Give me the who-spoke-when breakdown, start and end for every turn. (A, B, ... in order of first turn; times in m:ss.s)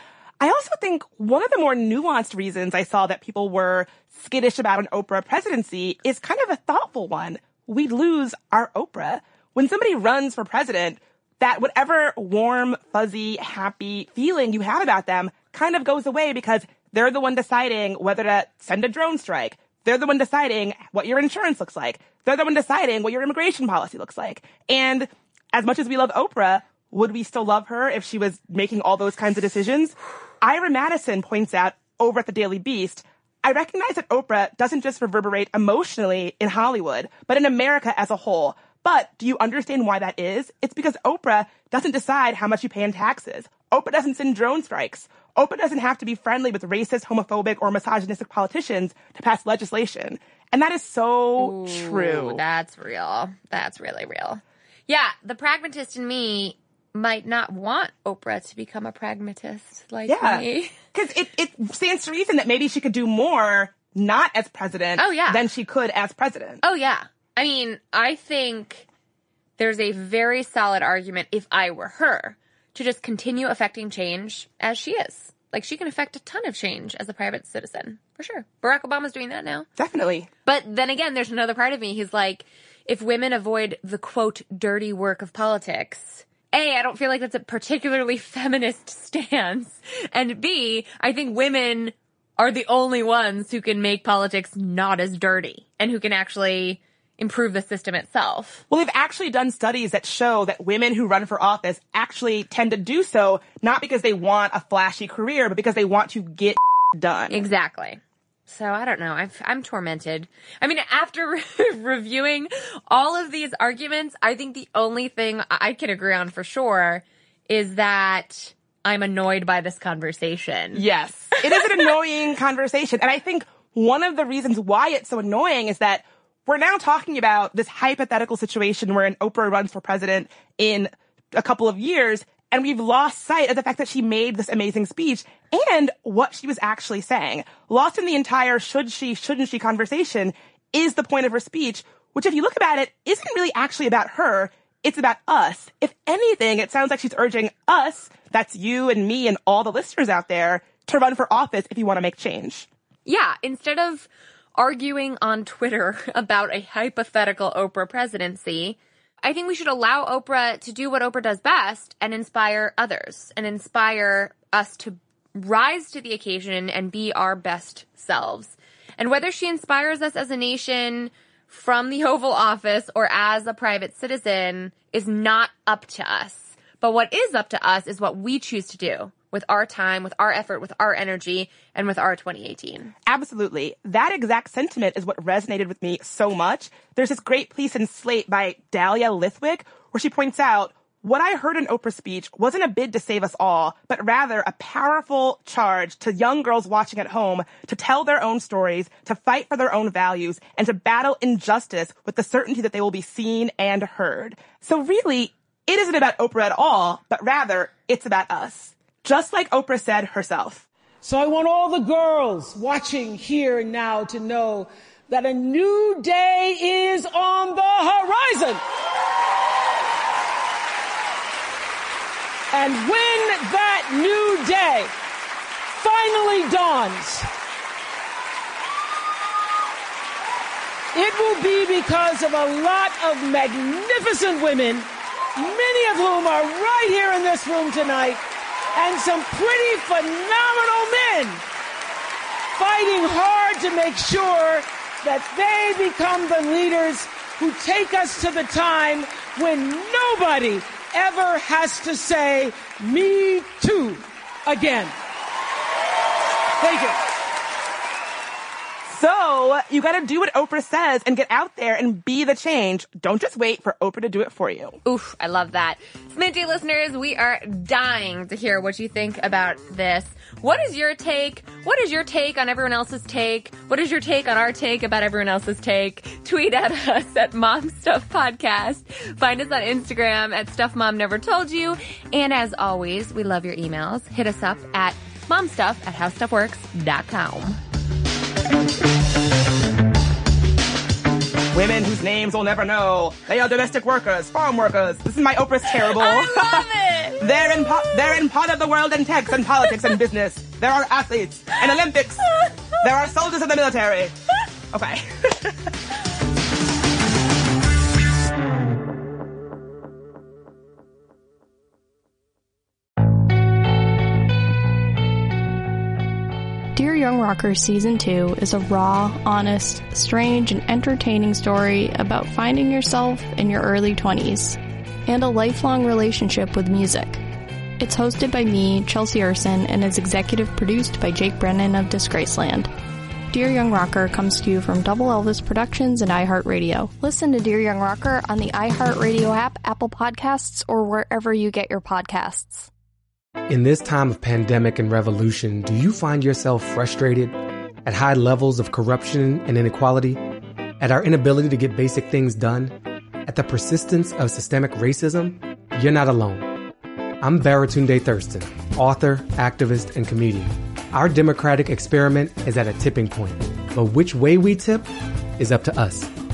0:00.4-0:52.4 A
0:51.4-1:00.8 B
1:00.1-1:06.6 A
1:05.0-1:05.5 B
1:06.6-1:08.9 B
1:09.6-1:19.7 B
1:19.8-1:20.3 A
1:20.5-1:38.6 B
1:38.7-1:47.4 A
1:47.3-2:00.8 B
2:00.7-2:32.7 A
2:01.4-2:01.8 B
2:33.1-3:02.9 B
3:03.1-3:30.6 A
3:31.0-3:38.6 C
3:42.5-3:44.9 C
3:45.8-3:47.3 C
3:50.9-3:58.2 C
3:58.8-4:01.4 C
4:02.6-4:14.9 C
4:16.6-4:17.0 C
4:18.9-4:24.8 A
4:24.8-4:47.6 B
4:51.5-4:56.7 A
4:55.8-4:58.2 B
4:57.2-5:02.3 A
5:02.8-5:04.2 A
5:04.7-5:05.7 A
5:16.8-5:27.2 D
5:27.8-5:32.7 D
5:33.3-5:42.7 D
5:43.5-5:50.2 E
5:50.8-5:56.6 E
5:57.2-6:04.9 E
6:05.4-6:06.1 E